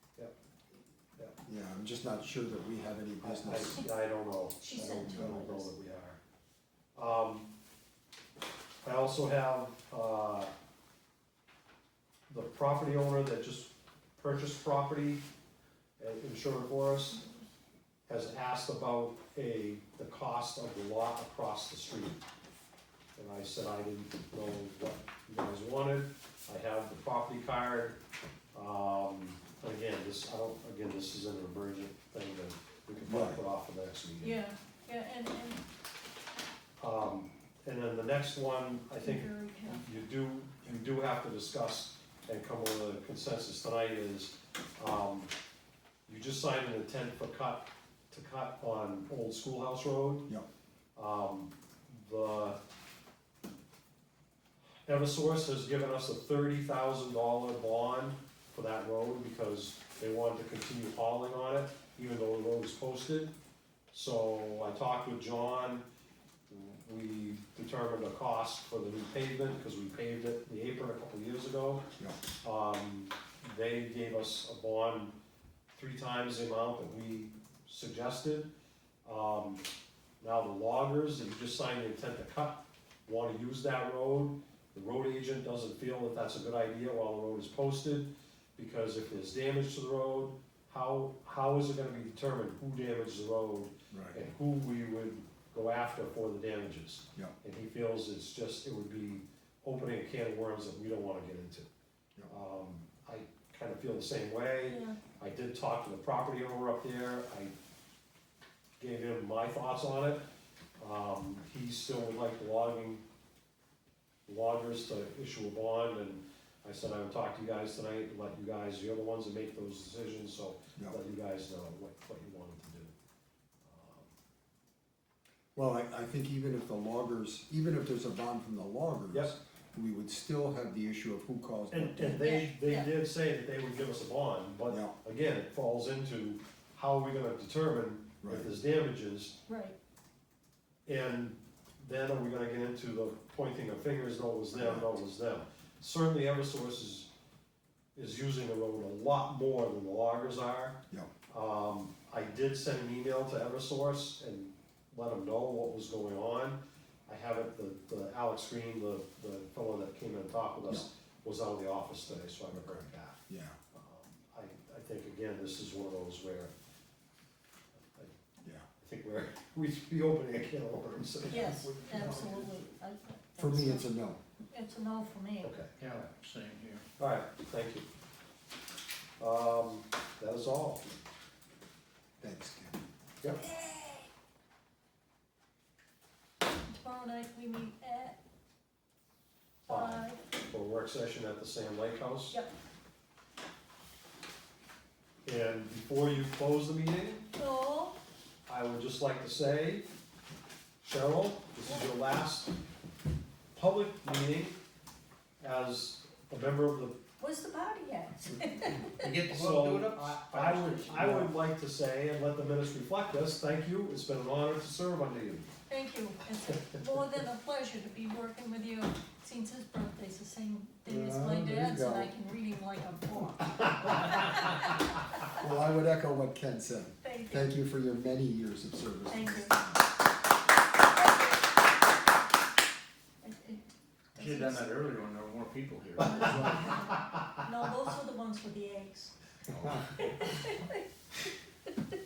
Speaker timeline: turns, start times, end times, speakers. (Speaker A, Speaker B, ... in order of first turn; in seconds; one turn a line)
Speaker A: 1.4-3.8
Speaker B: 3.2-6.2
Speaker C: 4.6-5.7
Speaker A: 5.0-5.4
Speaker B: 7.0-7.5
Speaker B: 8.8-10.5
Speaker B: 12.3-15.2
Speaker B: 16.0-17.2
Speaker B: 18.1-22.2
Speaker B: 23.2-28.0
Speaker B: 28.5-34.4
Speaker A: 33.0-33.4
Speaker C: 34.2-35.6
Speaker B: 36.8-45.3
Speaker C: 39.0-39.8
Speaker B: 46.1-50.3
Speaker B: 51.0-52.6
Speaker B: 54.9-63.3
Speaker B: 63.9-65.8
Speaker B: 66.5-71.9
Speaker B: 72.4-75.2
Speaker B: 75.7-78.5
Speaker B: 79.0-79.6
Speaker B: 80.2-101.7
Speaker A: 93.9-94.2
Speaker B: 102.3-107.5
Speaker C: 104.7-105.0
Speaker B: 108.8-110.2
Speaker B: 110.8-113.0
Speaker B: 114.3-122.9
Speaker B: 123.7-124.1
Speaker A: 125.6-132.2
Speaker B: 131.7-139.4
Speaker C: 132.2-132.9
Speaker A: 134.7-134.9
Speaker A: 138.2-138.5
Speaker C: 139.5-139.8
Speaker B: 140.9-147.1
Speaker A: 144.6-144.9
Speaker B: 148.0-150.8
Speaker B: 151.3-163.2
Speaker A: 162.5-163.6
Speaker B: 163.7-166.5
Speaker B: 168.8-171.7
Speaker C: 171.3-173.9
Speaker A: 171.6-172.4
Speaker A: 173.4-174.2
Speaker C: 174.5-175.5
Speaker B: 175.4-175.7
Speaker D: 175.8-176.8
Speaker B: 177.0-177.8
Speaker B: 179.2-180.8
Speaker A: 182.2-182.8
Speaker C: 183.4-184.1
Speaker C: 186.7-188.2
Speaker C: 189.7-190.2
Speaker B: 189.7-192.4
Speaker B: 195.2-197.3
Speaker C: 197.3-198.0
Speaker B: 198.5-199.9
Speaker B: 200.8-202.5
Speaker B: 203.6-204.6
Speaker B: 205.4-207.0
Speaker C: 207.2-209.1
Speaker D: 209.0-211.2
Speaker B: 209.3-215.5
Speaker A: 211.0-211.3
Speaker C: 215.7-224.8
Speaker A: 220.9-222.1
Speaker B: 223.8-224.1
Speaker A: 225.3-229.9
Speaker C: 227.0-227.5
Speaker C: 229.1-229.6
Speaker C: 233.2-233.6
Speaker C: 234.2-234.7
Speaker D: 234.2-236.6
Speaker C: 236.0-239.1
Speaker B: 236.2-237.4
Speaker A: 239.5-239.8
Speaker D: 239.5-239.8
Speaker C: 239.9-240.8